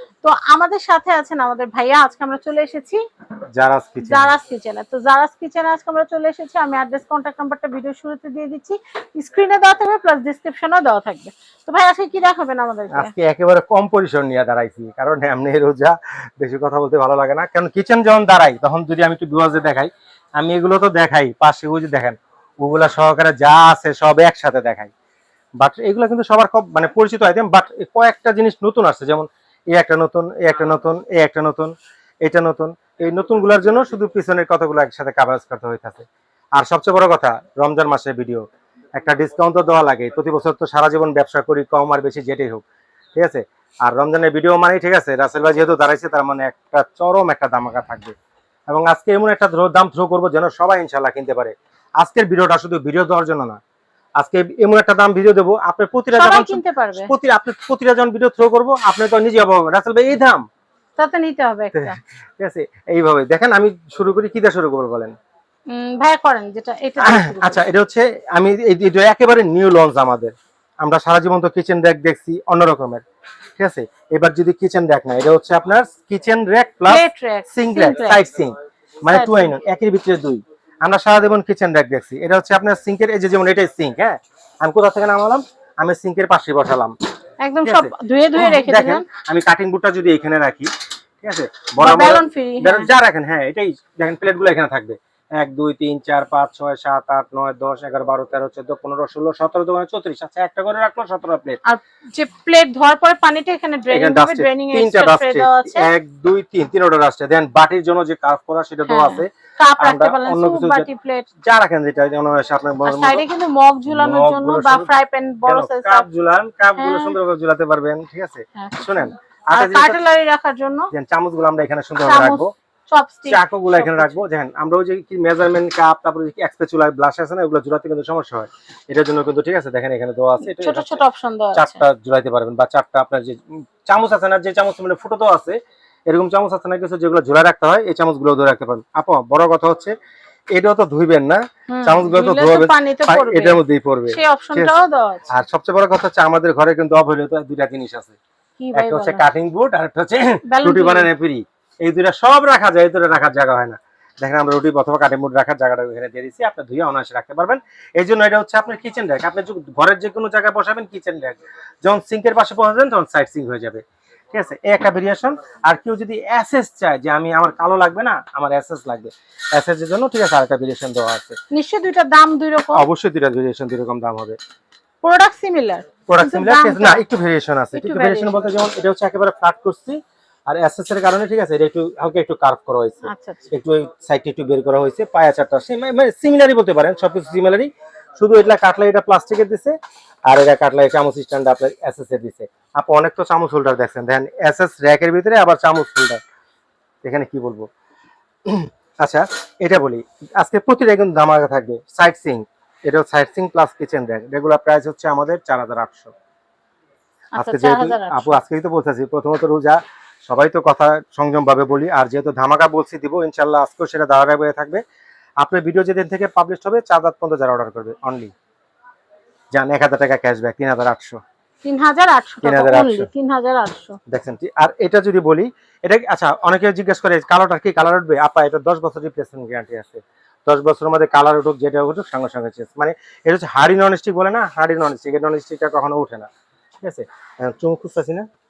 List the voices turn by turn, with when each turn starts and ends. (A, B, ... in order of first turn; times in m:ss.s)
0:00.2-0:03.0 A
0:03.5-0:04.3 B
0:04.0-0:13.1 A
0:12.9-0:24.9 B
0:25.6-0:31.7 B
0:32.2-0:38.4 B
0:39.0-0:42.6 B
0:43.2-0:48.1 B
0:48.7-0:53.6 B
0:54.2-1:00.4 B
0:56.1-0:57.1 A
1:01.0-1:02.0 A
1:01.7-1:05.1 B
1:05.7-1:07.6 A
1:07.0-1:13.0 B
1:13.6-1:27.0 B
1:16.9-1:18.2 A
1:19.1-1:19.5 A
1:27.4-1:29.0 A
1:27.6-1:30.7 B
1:31.2-1:41.6 B
1:31.8-1:32.9 A
1:41.6-1:45.9 A
1:43.9-1:50.9 B
1:48.9-1:51.3 A
1:51.4-1:53.2 B
1:52.8-1:56.0 A
1:53.9-1:54.9 B
1:55.4-2:00.0 B
1:56.8-1:57.2 A
1:58.6-2:00.9 A
2:00.9-2:02.5 B
2:02.0-2:04.2 A
2:03.3-2:11.0 B
2:10.4-2:11.8 A
2:11.5-2:19.9 B
2:20.5-2:24.7 B
2:21.7-2:25.3 A
2:25.3-2:28.2 B
2:28.6-2:29.2 A
2:28.7-2:51.4 B
2:30.4-2:31.1 A
2:51.5-2:52.9 A
2:52.7-2:54.4 B
2:55.0-2:57.0 A
2:56.1-3:16.2 B
2:57.7-2:58.5 A
3:03.0-3:03.5 A
3:17.0-3:17.7 B
3:18.4-3:26.1 B
3:27.3-3:28.4 A
3:27.4-3:34.8 B
3:35.4-3:38.3 B
3:39.5-3:41.2 B
3:41.6-3:44.0 A
3:42.4-3:43.1 B
3:44.1-3:56.3 B
3:56.8-3:58.3 B